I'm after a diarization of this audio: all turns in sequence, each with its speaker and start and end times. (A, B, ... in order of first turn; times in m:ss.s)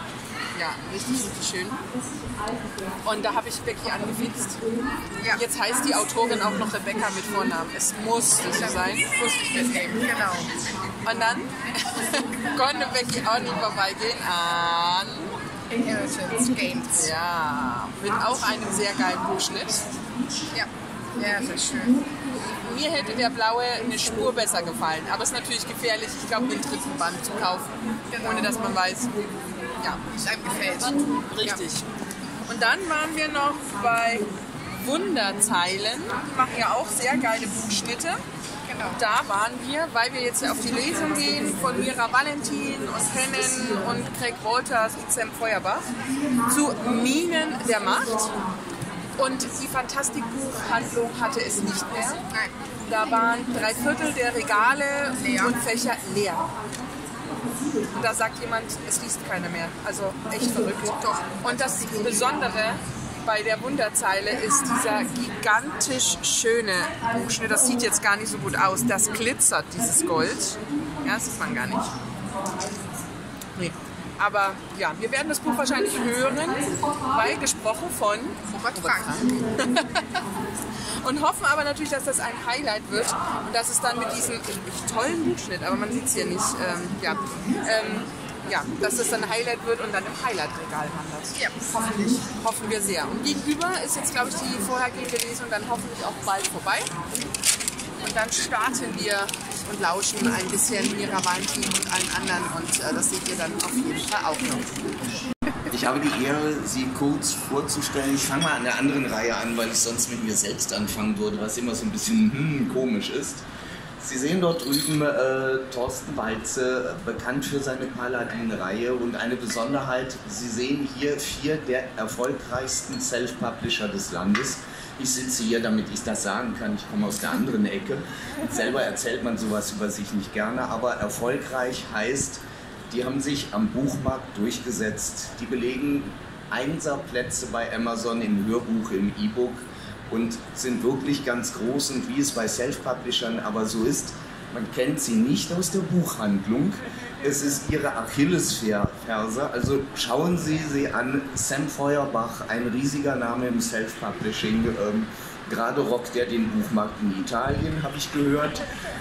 0:00.5-0:01.9 A
0:03.0-0:04.7 A
0:05.3-0:09.1 A
0:08.6-0:10.6 B
0:11.0-0:15.4 A
0:15.8-0:17.1 B
0:17.0-0:19.9 A
0:20.5-0:22.0 B
0:22.6-0:29.3 A
0:28.1-0:28.7 B
0:29.8-0:30.1 A
0:30.1-0:31.7 B
0:31.4-0:31.9 A
0:32.5-0:38.2 A
0:38.7-0:39.0 B
0:39.0-0:48.4 A
0:49.2-0:52.3 A
0:52.8-0:56.5 A
0:55.2-0:55.6 B
0:57.9-1:11.9 A
1:00.8-1:02.7 B
1:13.6-1:19.0 A
1:18.4-1:19.6 B
1:19.6-1:20.2 A
1:21.0-1:31.4 A
1:31.4-1:31.7 B
1:32.2-1:37.0 A
1:38.1-1:44.7 A
1:45.7-1:53.5 C
1:54.0-2:38.6 C